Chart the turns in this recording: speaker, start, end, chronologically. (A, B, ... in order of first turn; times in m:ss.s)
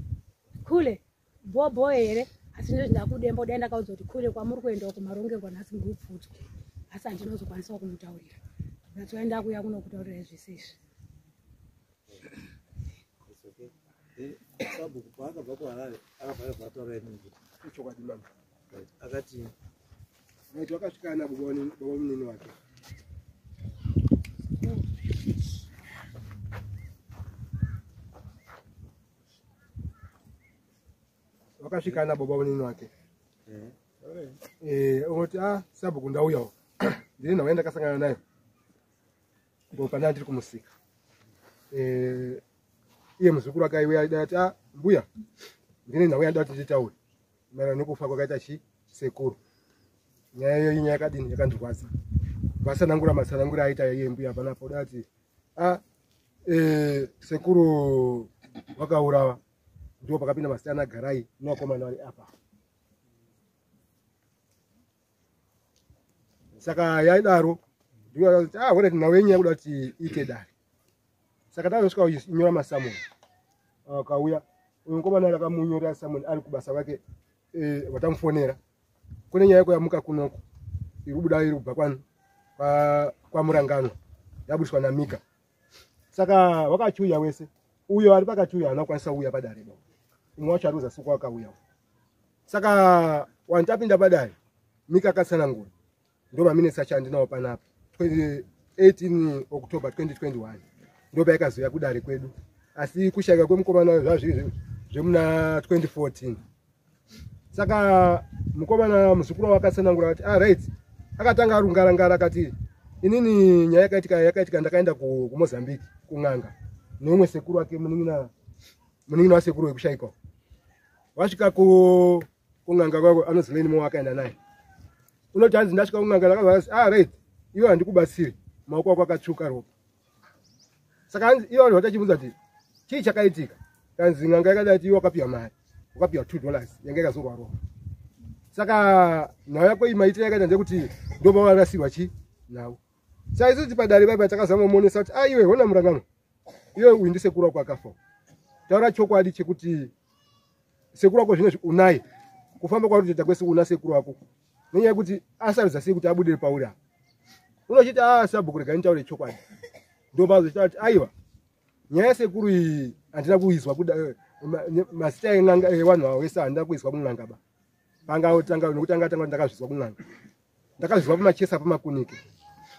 0:00.6-0:08.4 A
0:08.9-0:10.8 A
0:13.2-0:17.4 B
0:17.6-0:18.2 C
0:18.7-0:19.5 B
0:20.5-0:22.5 C
0:31.6-0:32.9 C
0:33.5-0:34.3 B
0:34.6-0:38.2 C
0:39.7-0:40.7 C
0:41.7-0:42.4 C
0:43.2-0:45.0 C
0:45.9-0:46.9 C
0:47.5-0:49.4 C
0:50.3-0:51.9 C
0:52.6-0:55.8 C
0:56.5-0:59.4 C
1:00.0-1:02.3 C
1:06.6-1:07.6 C
1:08.1-1:10.5 C
1:11.5-1:13.0 C
1:13.8-1:17.0 C
1:17.5-1:18.6 C
1:19.3-1:20.4 C
1:21.0-1:22.0 C
1:22.6-1:24.0 C
1:24.5-1:25.2 C
1:26.1-1:29.8 C
1:30.4-1:31.6 C
1:32.5-1:34.4 C
1:34.9-1:35.7 C
1:36.3-1:46.4 C
1:47.5-1:58.3 C
1:59.1-2:00.1 C
2:01.1-2:04.4 C
2:05.3-2:09.7 C
2:11.1-2:12.3 C
2:12.9-2:17.6 C
2:18.5-2:22.8 C
2:23.3-2:26.0 C
2:26.7-2:28.0 C
2:28.7-2:29.9 C
2:30.9-2:32.0 C
2:32.6-2:34.2 C
2:34.7-2:36.7 C
2:37.7-2:39.4 C
2:40.1-2:41.1 C
2:41.9-2:47.4 C
2:48.1-2:50.0 C
2:50.8-2:52.2 C